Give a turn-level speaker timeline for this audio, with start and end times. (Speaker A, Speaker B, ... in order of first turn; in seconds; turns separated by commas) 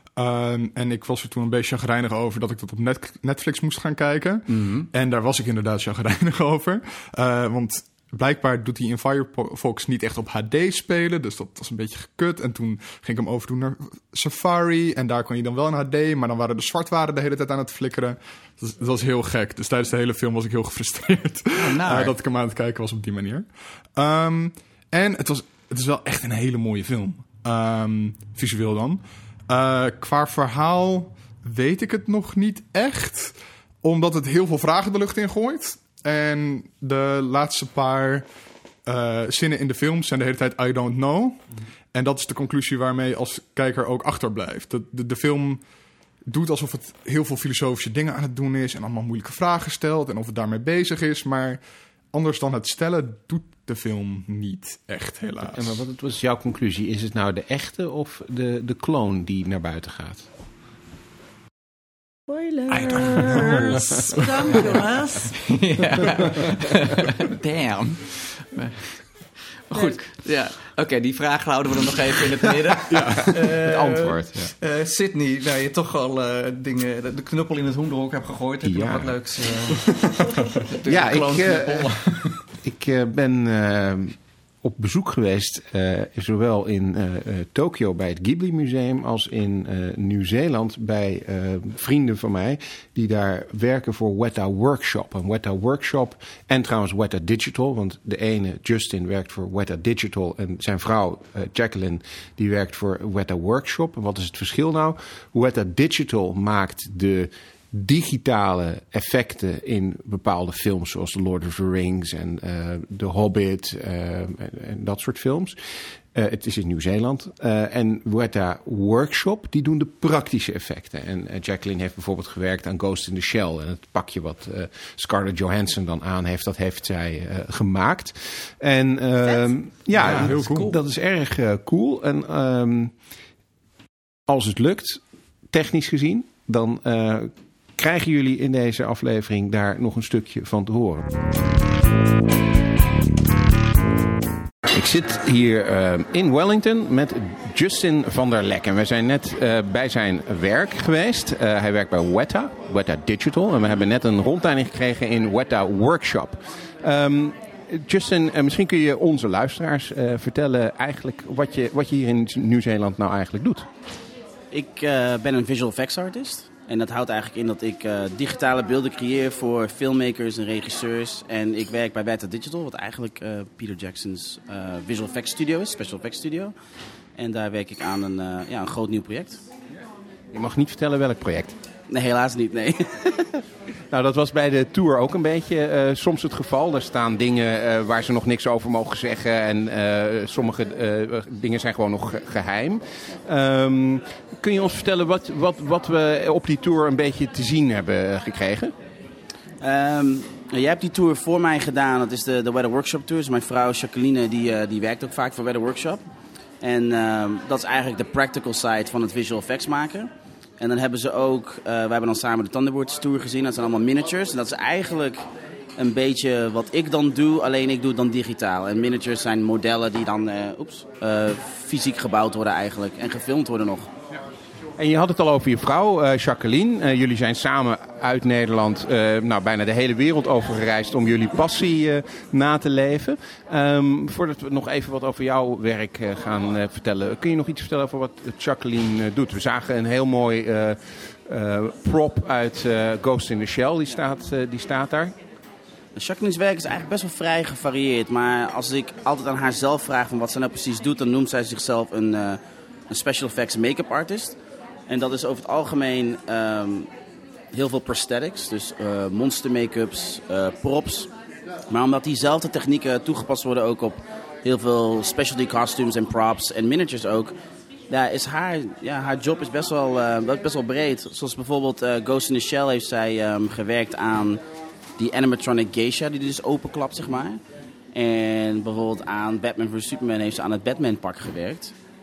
Speaker A: 0.1-38.3, Speaker B: 4.5-4.9, Speaker B: 21.6-22.1, Speaker A: 38.9-45.6, Speaker A: 46.3-51.6, Speaker A: 52.1-55.7, Speaker C: 55.5-60.2, Speaker D: 62.3-65.3, Speaker A: 62.7-64.8, Speaker B: 65.4-69.0, Speaker B: 69.7-82.4, Speaker A: 72.9-73.4, Speaker C: 73.0-74.5, Speaker C: 78.6-79.2, Speaker C: 80.8-115.5, Speaker C: 116.1-132.9, Speaker A: 129.9-130.7, Speaker B: 130.0-130.6, Speaker C: 134.3-141.2, Speaker C: 144.6-163.7, Speaker E: 164.5-176.5, Speaker E: 177.2-179.4, Speaker C: 180.3-181.6, Speaker E: 181.9-183.4, Speaker C: 183.9-198.7, Speaker E: 199.6-206.0, Speaker E: 206.6-215.2, Speaker E: 215.8-223.9, Speaker C: 224.8-245.1, Speaker E: 245.9-254.4, Speaker E: 254.9-256.9, Speaker E: 257.5-261.1, Speaker E: 261.7-267.3, Speaker E: 267.9-274.4, Speaker E: 275.0-277.4, Speaker E: 277.9-281.7